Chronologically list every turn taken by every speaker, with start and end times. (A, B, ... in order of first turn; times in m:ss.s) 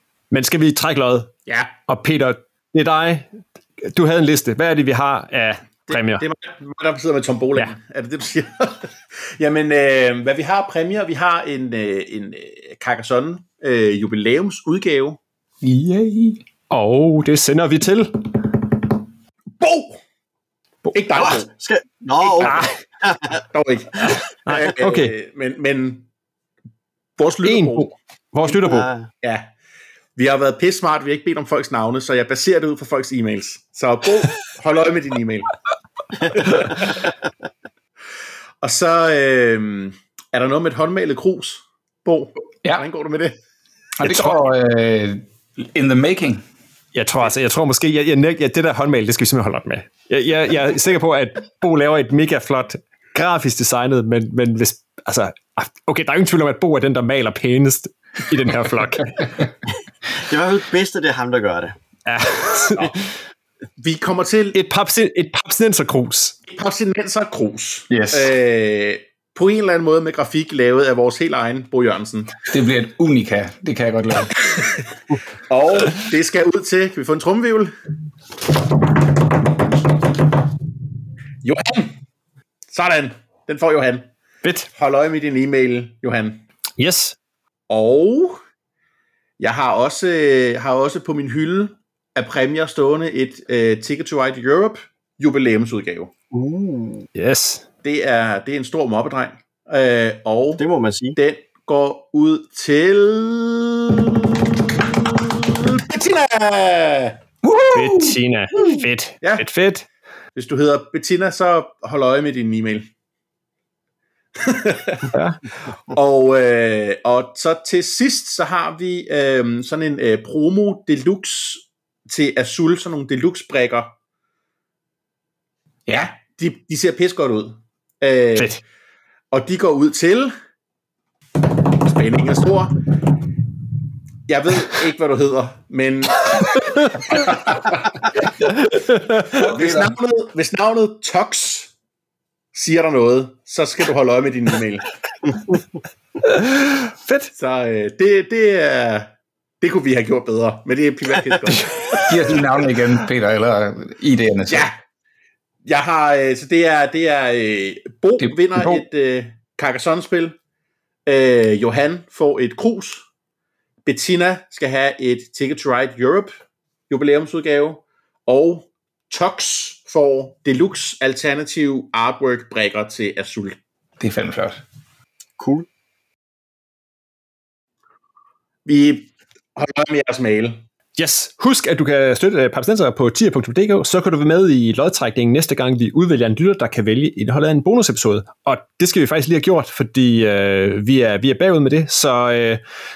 0:00.3-0:01.3 A
0:01.9-0:06.2 A
0:05.9-0:15.2 B
0:15.6-0:16.4 C
0:16.7-0:18.4 A
0:19.6-0:20.0 B
0:20.8-0:21.2 A
0:20.9-0:21.5 B
0:21.2-0:23.4 D
0:22.2-0:22.7 B
0:22.4-0:22.7 A
0:23.4-0:26.1 B
0:24.4-0:25.1 A
0:27.2-0:27.9 B
0:27.4-0:28.9 A
0:28.5-0:29.1 D
0:29.2-0:29.5 B
0:30.2-0:35.5 B
0:36.3-0:36.9 B
0:38.6-0:43.4 B
0:44.0-0:46.4 C
0:46.9-0:59.3 A
1:00.1-1:01.8 D
1:02.1-1:03.1 A
1:03.8-1:04.6 B
1:04.5-1:06.4 A
1:06.5-1:12.4 B
1:07.9-1:08.3 C
1:12.4-1:14.4 C
1:15.5-1:17.7 B
1:21.4-1:22.0 B
1:22.7-1:24.1 B
1:24.4-1:24.7 A
1:24.8-1:26.4 B
1:26.8-1:27.2 A
1:27.7-1:28.4 B
1:29.4-1:36.1 B
1:36.3-1:37.1 D
1:37.1-1:37.6 A
1:37.8-1:40.6 B
1:40.6-1:41.2 D
1:41.2-1:47.2 B
1:47.4-1:48.2 C
1:47.7-1:49.9 A
1:50.4-1:52.9 B
1:54.4-1:55.1 B
1:55.1-1:55.4 A
1:55.9-2:03.9 B
2:05.9-2:06.1 C
2:06.4-2:08.6 B
2:09.3-2:10.3 B
2:11.7-2:12.8 B
2:14.3-2:17.2 B
2:16.6-2:16.8 A
2:18.5-2:19.3 A
2:19.3-2:21.7 B
2:19.5-2:19.9 C
2:22.5-2:24.9 B
2:26.2-2:27.3 A
2:27.4-2:32.0 B
2:31.6-2:32.1 A
2:32.1-2:34.7 C
2:34.5-2:34.8 B
2:35.6-2:40.4 B
2:38.2-2:38.8 C
2:41.1-2:43.0 B
2:43.8-2:46.3 B
2:46.9-2:53.6 B
2:54.0-2:54.6 C
2:55.4-2:55.7 D
2:58.7-3:00.6 B
3:01.0-3:12.6 A